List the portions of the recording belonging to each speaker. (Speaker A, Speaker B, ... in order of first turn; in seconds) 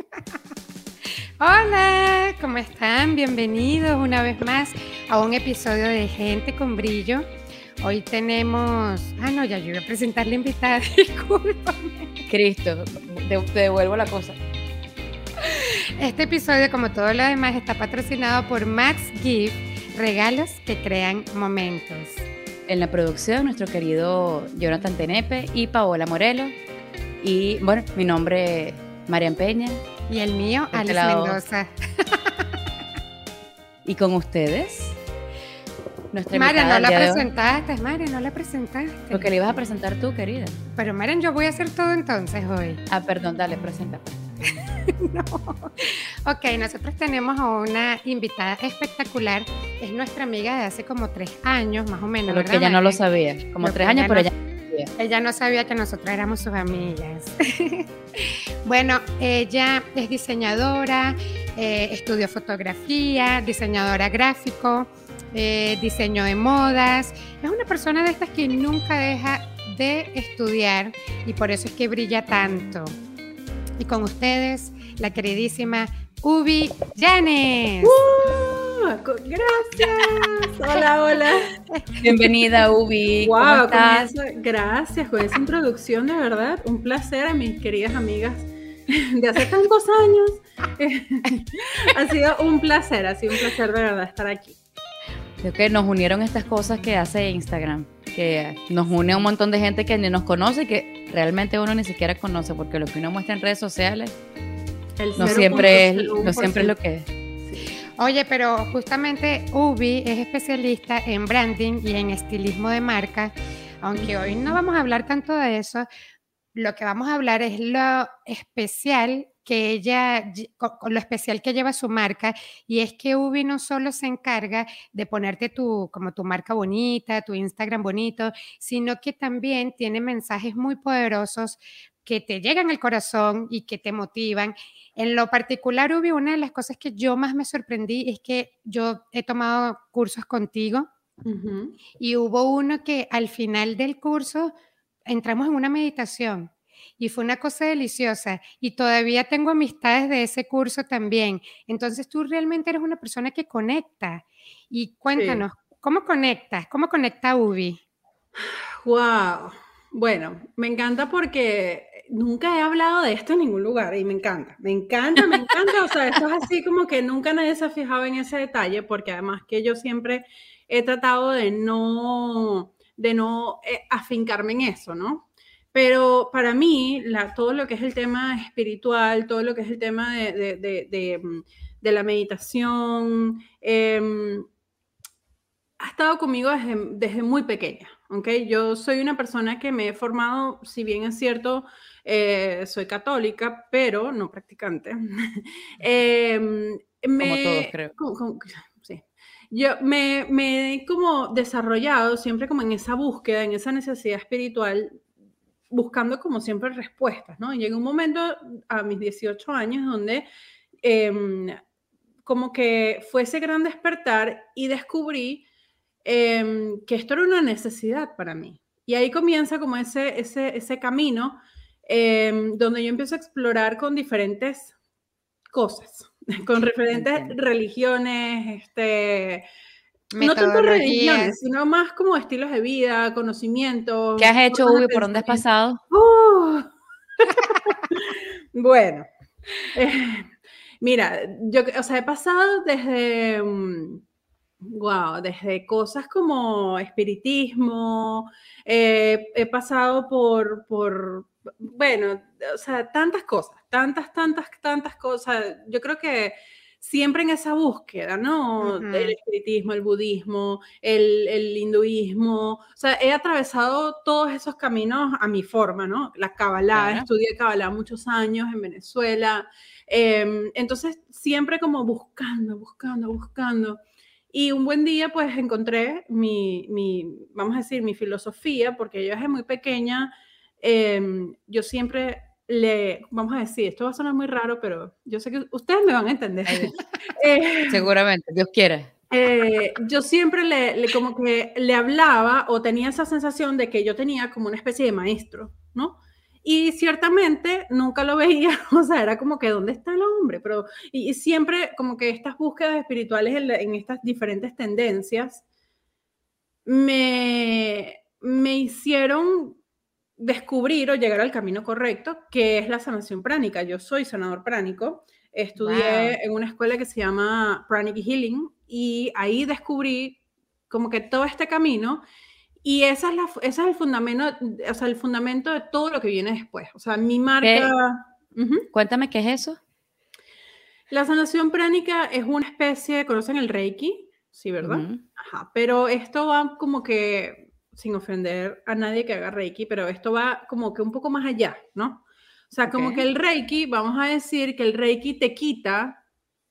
Speaker A: 1.4-7.3, 7.8-12.2, 15.4-22.2, 30.1-32.4, 36.3-39.3, 40.8-42.8, 44.9-53.0, 53.6-54.3, 55.0-73.0, 73.8-78.0, 108.0-115.9, 116.5-140.9, 142.0-144.5, 145.1-157.8, 230.1-231.3, 258.6-259.1, 315.6-316.2
Speaker B: 12.3-14.4, 22.7-26.6, 27.2-29.8, 30.7-31.4, 33.9-35.0, 36.1-37.3, 39.1-40.6, 42.9-44.2, 52.3-54.9, 82.0-84.1, 95.4-104.2, 105.2-107.1, 197.2-197.9, 226.9-227.3, 234.2-235.8, 266.7-267.1, 286.5-286.7, 287.7-288.9, 327.4-327.7, 328.7-329.6, 334.6-335.0, 342.7-343.1
Speaker C: 77.8-81.6, 83.2-94.6, 105.0-106.7, 114.0-114.5, 141.2-141.8, 155.2-155.4, 158.4-184.5, 185.8-205.0, 205.7-210.3, 210.8-211.6, 212.2-215.4, 216.0-224.7, 225.5-229.5, 230.2-236.7, 237.2-239.1, 239.7-240.3, 240.8-244.0, 244.6-273.8, 274.3-287.9, 289.1-305.4, 306.7-309.6, 310.2-320.2, 320.7-322.0, 322.6-328.7, 330.9-346.0